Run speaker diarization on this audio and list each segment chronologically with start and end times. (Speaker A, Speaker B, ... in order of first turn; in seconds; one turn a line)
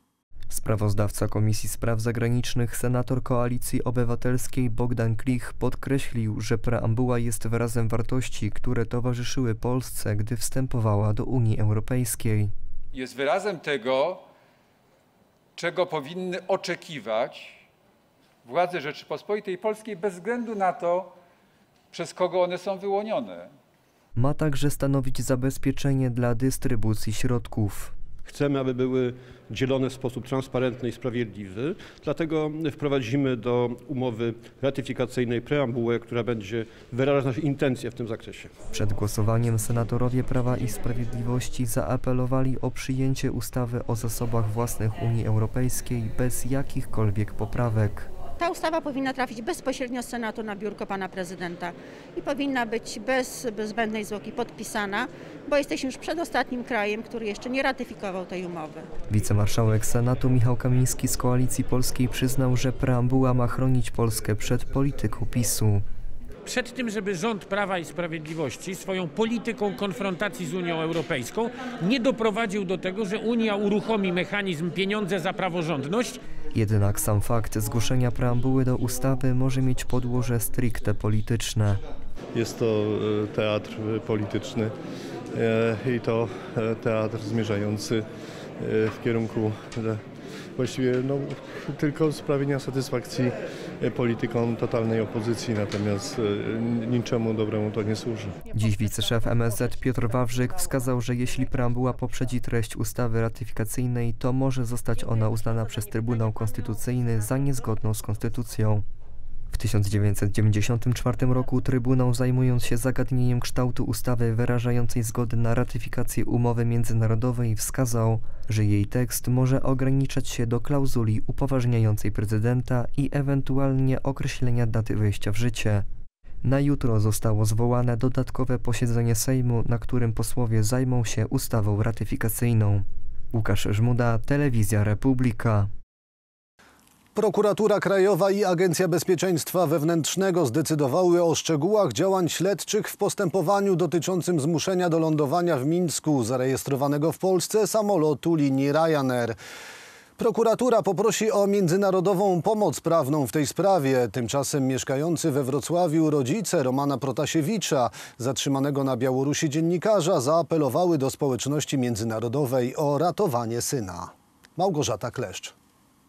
Speaker A: 0.5-12.5
Speaker B: 12.9-14.2
Speaker B: 15.6-17.6
Speaker B: 18.4-21.1
Speaker B: 21.9-23.5
Speaker A: 24.1-27.9
Speaker C: 28.2-38.5
Speaker A: 38.7-48.1
Speaker D: 48.4-58.9
Speaker A: 59.1-65.8
Speaker E: 66.4-76.2
Speaker A: 76.5-81.8
Speaker F: 82.3-84.7
Speaker F: 85.3-88.0
Speaker F: 88.6-90.0
Speaker F: 90.5-98.5
Speaker A: 98.5-108.8
Speaker A: 109.5-125.8
Speaker A: 126.4-135.7
Speaker G: 137.2-149.4
Speaker G: 150.2-165.5